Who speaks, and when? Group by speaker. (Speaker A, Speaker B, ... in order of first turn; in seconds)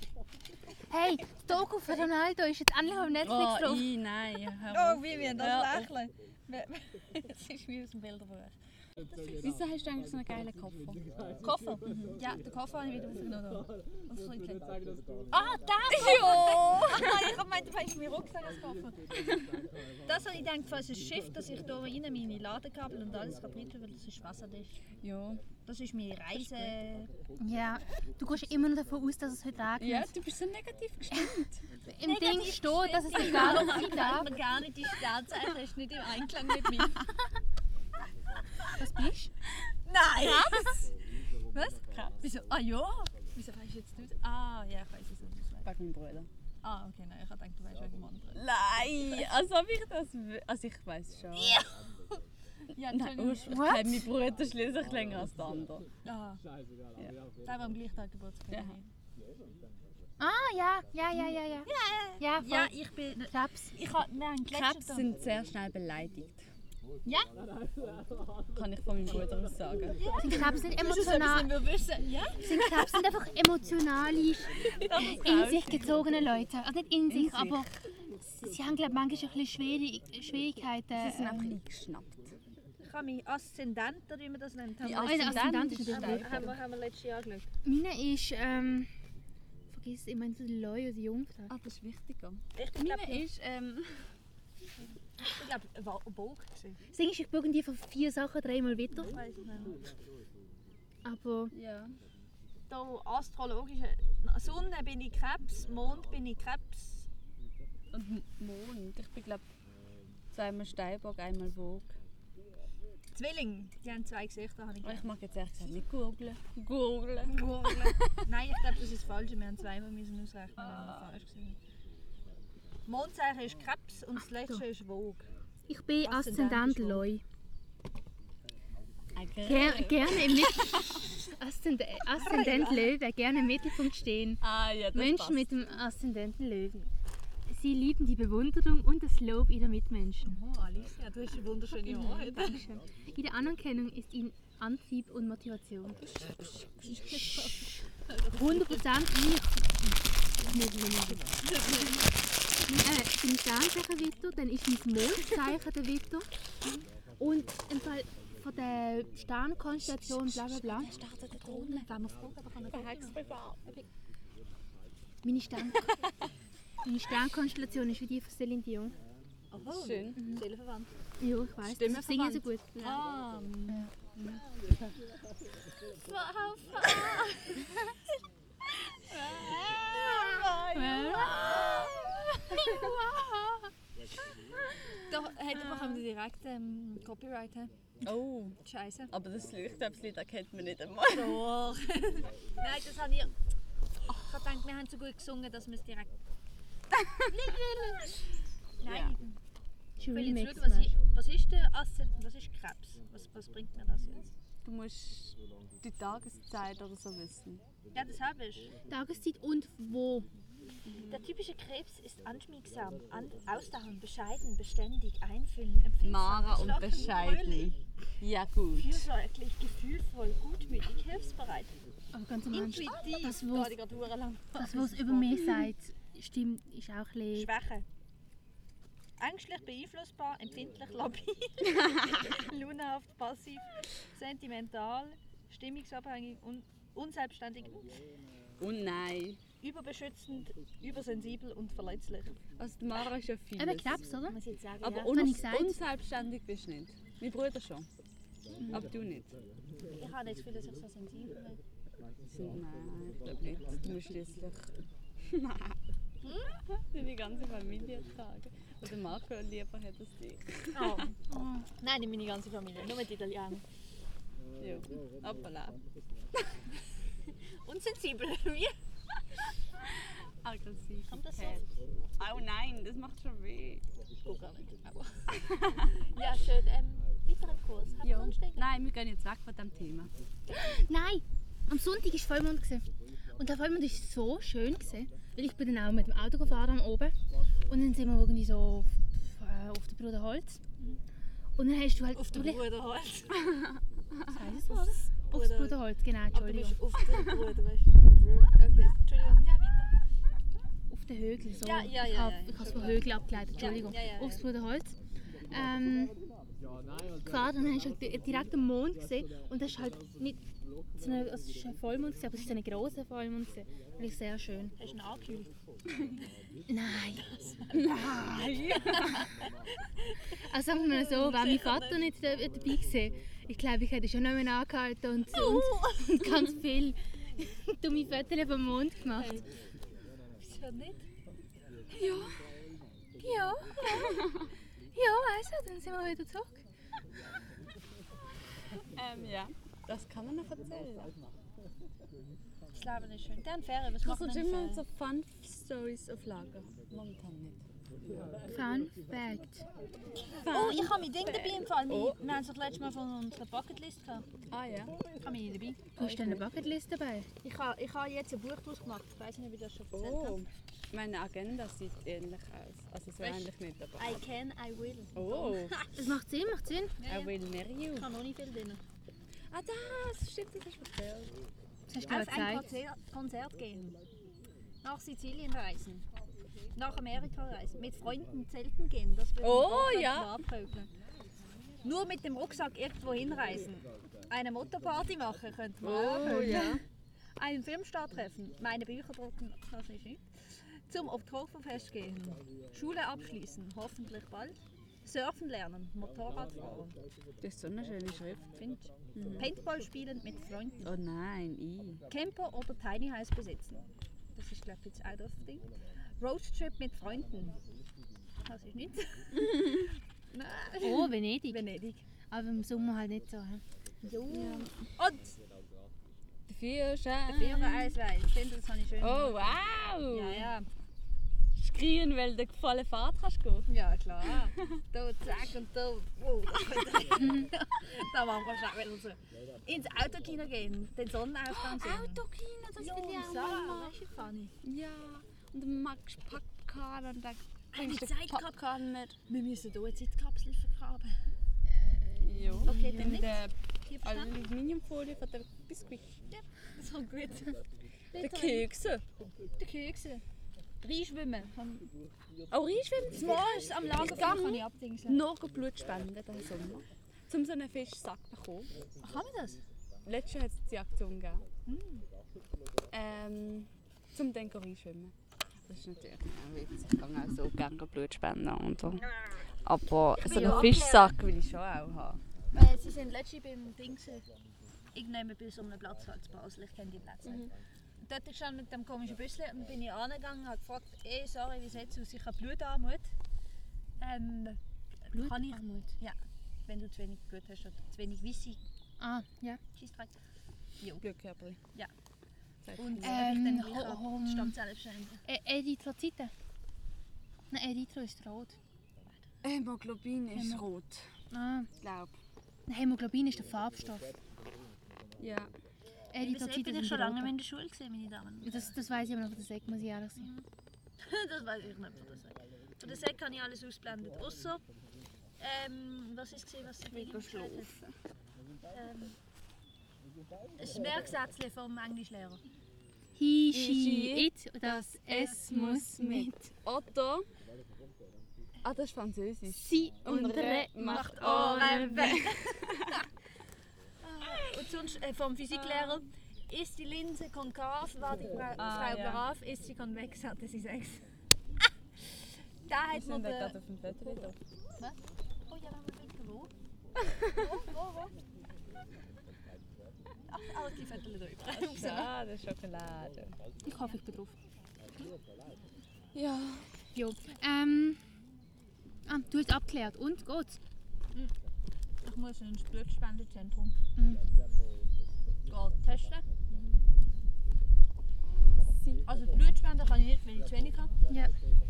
Speaker A: 0.9-3.9, 27.4-30.1, 31.9-34.3, 38.8-39.3, 53.5-54.0, 60.2-62.7, 63.3-63.7, 70.2-71.5, 72.4-81.6, 85.0-86.5, 87.6-88.9, 89.7-91.5, 96.9-99.2, 101.0-101.5, 125.7-127.2, 129.4-136.9, 137.5-140.4, 141.8-146.0, 146.8-147.7, 148.3-149.8, 150.4-151.2, 152.7-156.3, 157.2-160.9, 165.2-165.9, 166.8-168.9, 170.2-170.4, 171.2-172.9, 180.7-181.4, 182.5-183.0, 200.0-200.9, 208.9-210.3, 222.1-223.8, 224.6-227.5, 243.6-244.4, 244.9-245.8, 261.3-261.6, 280.5-282.9, 283.4-290.6, 291.6-292.6, 294.3-296.8, 300.9-304.9, 305.5-306.1, 307.2-310.4, 311.0-314.7, 316.7-319.0, 320.5-329.4, 334.9-336.6, 348.5-349.6, 356.0-357.3, 365.9-366.9, 371.9-372.7, 386.2-386.8, 410.8-411.6, 412.3-413.6, 427.1-427.5, 442.1-443.3, 485.1-485.9, 489.0-489.6, 493.0-494.6, 495.2-496.3, 497.5-498.6, 500.3-500.6, 501.3-501.7, 502.7-504.1, 506.1-507.3, 508.4-510.3, 523.1-526.5, 529.5-532.2, 553.6-554.4, 556.9-558.0, 559.0-560.6, 564.0-564.2, 571.1-571.3
Speaker B: 3.2-5.9, 9.4-11.0, 15.9-17.3, 25.0-25.4, 26.3-26.7, 29.8-31.6, 40.2-40.8, 45.6-46.3, 48.3-51.6, 52.8-55.9, 58.5-58.8, 64.5-66.5, 68.5-70.0, 74.8-76.1, 77.1-77.7, 81.0-82.3, 84.8-86.6, 91.5-94.1, 101.5-101.9, 107.9-109.5, 110.3-111.9, 114.8-117.9, 120.6-121.1, 129.1-131.0, 134.4-135.5, 159.8-161.9, 162.7-163.6, 169.7-170.2, 171.6-173.0, 180.0-182.9, 184.7-186.0, 188.0-188.6, 189.1-191.4, 196.9-197.4, 198.8-199.1, 204.6-207.6, 210.8-211.2, 216.0-219.1, 231.6-232.4, 238.6-239.4, 242.6-244.0, 244.8-247.9, 248.6-249.3, 252.3-255.8, 256.7-261.1, 264.6-265.6, 269.8-271.6, 272.2-273.8, 275.3-276.0, 278.0-280.1, 293.5-293.8, 317.7-319.2, 331.9-332.4, 333.2-334.5, 338.7-341.1, 344.0-347.6, 350.3-352.2, 354.5-354.9, 356.0-356.4, 359.9-364.2, 365.1-365.8, 367.1-368.1, 369.5-371.3, 379.4-380.4, 385.8-386.8, 397.4-398.5, 399.1-399.5, 400.8-402.0, 409.3-409.9, 414.3-414.7, 416.5-417.9, 419.0-420.5, 421.5-423.7, 431.5-433.9, 434.6-439.2, 442.2-446.1, 448.1-449.0, 452.5-458.7, 460.0-461.4, 462.9-469.1, 469.6-472.2, 477.2-477.5, 491.0-491.6, 492.6-493.3, 499.4-501.1, 501.8-502.1, 505.2-505.5, 516.9-517.9, 523.5-527.2, 528.6-533.0, 534.2-534.7, 535.5-536.0, 538.6-539.2, 542.9-544.4, 547.0-547.5, 551.5-553.4, 556.1-556.7, 568.2-569.1
Speaker C: 4.7-8.5, 9.1-9.4, 11.4-14.7, 15.3-19.1, 20.0-24.8, 25.6-27.1, 32.0-37.0, 39.9-40.8, 41.5-45.7, 46.6-48.5, 49.0-49.3, 51.3-51.7, 52.7-53.6, 56.0-56.4, 57.4-58.9, 61.6-65.1, 70.0-73.0, 82.8-87.5, 92.5-93.2, 95.3-96.8, 99.1-99.9, 102.7-107.1, 113.1-115.1, 117.3-121.5, 122.9-125.3, 126.0-127.0, 132.2-132.9, 140.2-142.7, 146.0-148.8, 151.4-152.0, 161.4-163.8, 169.5-170.9, 172.8-173.8, 175.9-177.9, 179.1-183.3, 185.1-187.7, 188.6-189.1, 191.1-193.3, 194.2-196.1, 197.3-198.3, 198.8-199.4, 200.1-204.3, 207.9-208.7, 211.1-217.7, 218.7-221.7, 222.5-225.5, 227.3-227.8, 229.2-238.0, 239.6-242.4, 244.3-245.2, 250.0-251.6, 256.2-256.6, 260.7-263.6, 265.3-265.7, 267.2-268.7, 271.1-271.6, 274.2-275.2, 276.1-278.7, 292.1-293.4, 294.7-295.8, 296.3-299.9, 301.6-304.4, 314.8-315.5, 318.7-319.5, 320.7-322.1, 325.3-326.2, 329.1-329.5, 330.4-331.0, 342.7-344.8, 350.4-354.3, 355.2-355.9, 357.4-360.4, 363.2-366.1, 367.0-367.3, 367.9-368.8, 372.1-374.0, 374.8-376.0, 376.7-380.9, 381.8-386.8, 387.4-390.2, 390.9-396.9, 398.5-400.9, 402.1-405.7, 406.2-407.6, 408.4-409.5, 410.3-412.0, 414.0-415.4, 417.3-419.6, 420.1-420.7, 423.7-432.2, 432.8-434.5, 437.7-438.6, 439.3-441.2, 442.6-444.3, 446.3-447.6, 448.1-448.6, 449.6-450.2, 450.8-451.9, 453.1-455.2, 459.0-459.6, 461.6-462.0, 470.2-471.2, 472.5-474.2, 474.9-477.5, 478.0-483.1, 484.0-488.6, 489.7-490.1, 492.8-495.2, 506.2-508.7, 510.2-510.4, 511.0-514.6, 515.4-517.7, 518.7-519.2, 520.6-522.4, 530.8-533.0, 534.0-541.0, 542.7-543.5, 545.5-546.5, 547.3-548.1, 550.3-552.1, 562.0-563.7, 565.5-566.8, 569.0-570.9